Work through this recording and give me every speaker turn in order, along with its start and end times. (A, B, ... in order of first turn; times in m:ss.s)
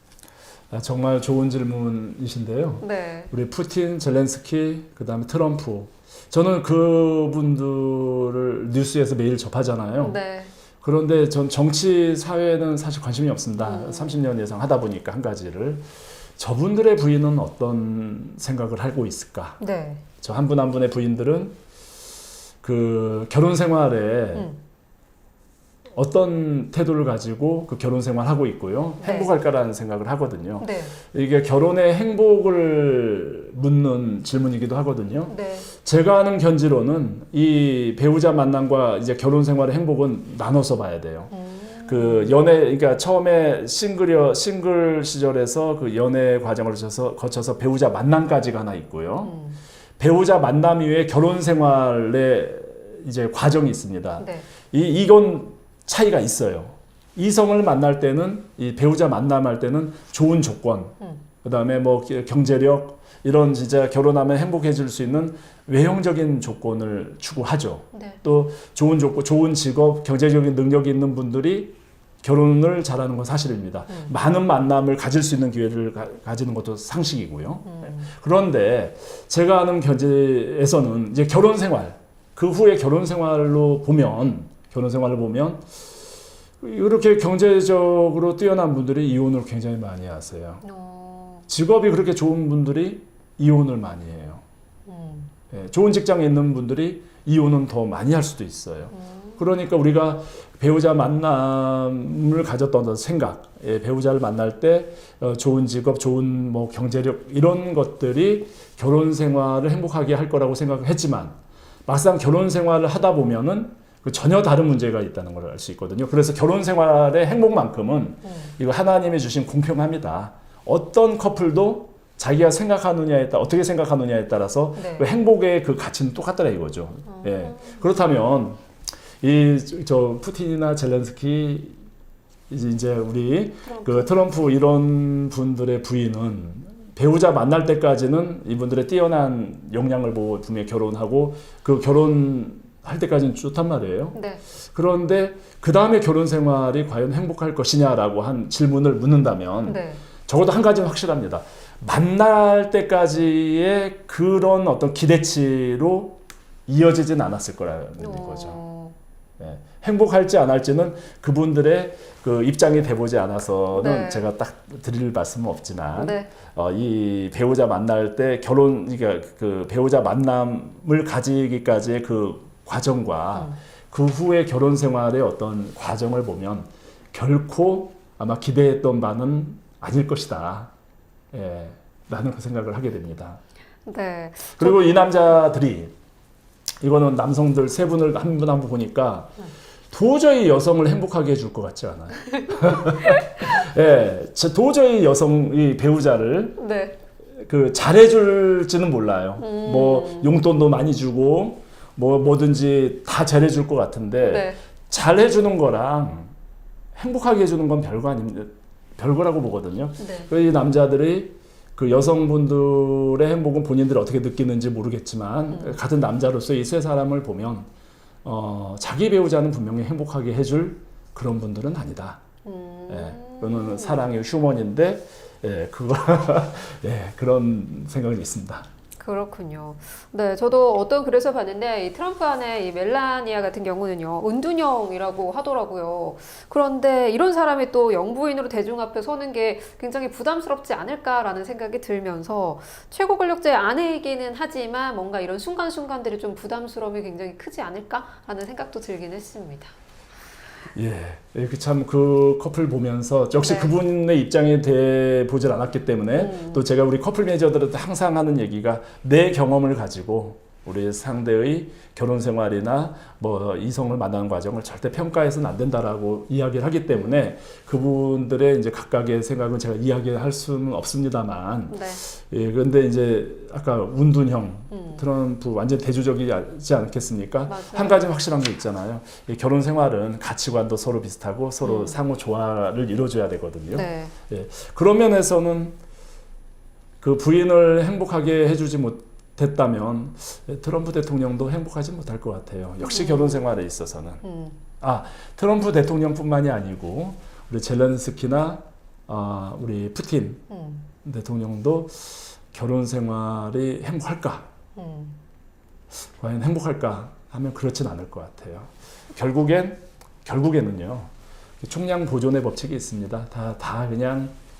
0:00.7-0:10.2 A
0:02.8-0:03.3 B
0:10.0-0:10.5 B
0:10.8-0:19.6 A
0:13.6-0:14.2 B
0:19.6-0:20.0 B
0:20.2-0:21.6 A
0:22.6-0:24.5 A
0:25.9-0:41.3 A
0:29.0-0:29.3 B
0:30.6-0:30.9 B
0:35.3-0:35.7 B
0:41.3-0:42.4 B
0:41.8-0:49.3 A
0:49.2-0:49.6 B
0:50.0-1:25.7 A
0:54.2-0:54.5 B
1:07.9-1:08.2 B
1:17.6-1:18.1 B
1:26.6-1:30.6 A
1:30.6-1:31.4 B
1:31.5-1:34.4 A
1:34.8-1:35.3 B
1:35.5-2:08.6 A
1:38.9-1:39.4 B
1:58.2-1:58.5 B
2:04.8-2:05.1 B
2:07.1-2:07.8 B
2:09.2-2:11.8 A
2:12.5-2:24.2 A
2:13.6-2:14.3 B
2:24.1-2:24.4 B
2:24.7-2:38.6 A
2:29.6-2:30.0 B
2:38.0-2:38.9 B
2:39.4-3:00.7 A
2:43.7-2:44.2 B
2:46.0-2:46.3 B
3:01.3-3:03.4 A
3:03.8-3:04.9 B
3:04.6-3:05.9 A
3:06.8-3:09.4 A
3:09.9-3:16.6 A
3:16.6-3:17.0 B
3:17.4-3:26.3 A
3:19.4-3:20.3 B
3:24.2-3:24.6 B
3:27.0-3:37.7 A
3:30.0-3:30.3 B
3:35.5-3:35.8 B
3:38.2-3:42.2 A
3:42.4-3:44.1 B
3:42.9-3:48.7 A
3:49.0-4:09.7 B
4:10.7-4:45.8 A
4:13.4-4:13.7 B
4:16.1-4:16.6 B
4:26.9-4:27.3 B
4:31.7-4:32.0 B
4:34.7-4:35.0 B
4:37.5-4:38.1 B
4:41.6-4:42.0 B
4:43.7-4:44.1 B
4:47.0-4:54.2 A
4:52.8-4:53.4 B
4:54.2-4:54.6 B
4:54.8-5:00.4 A
5:00.5-5:00.9 B
5:01.0-5:04.5 A
5:04.8-5:05.2 B
5:06.2-5:14.4 A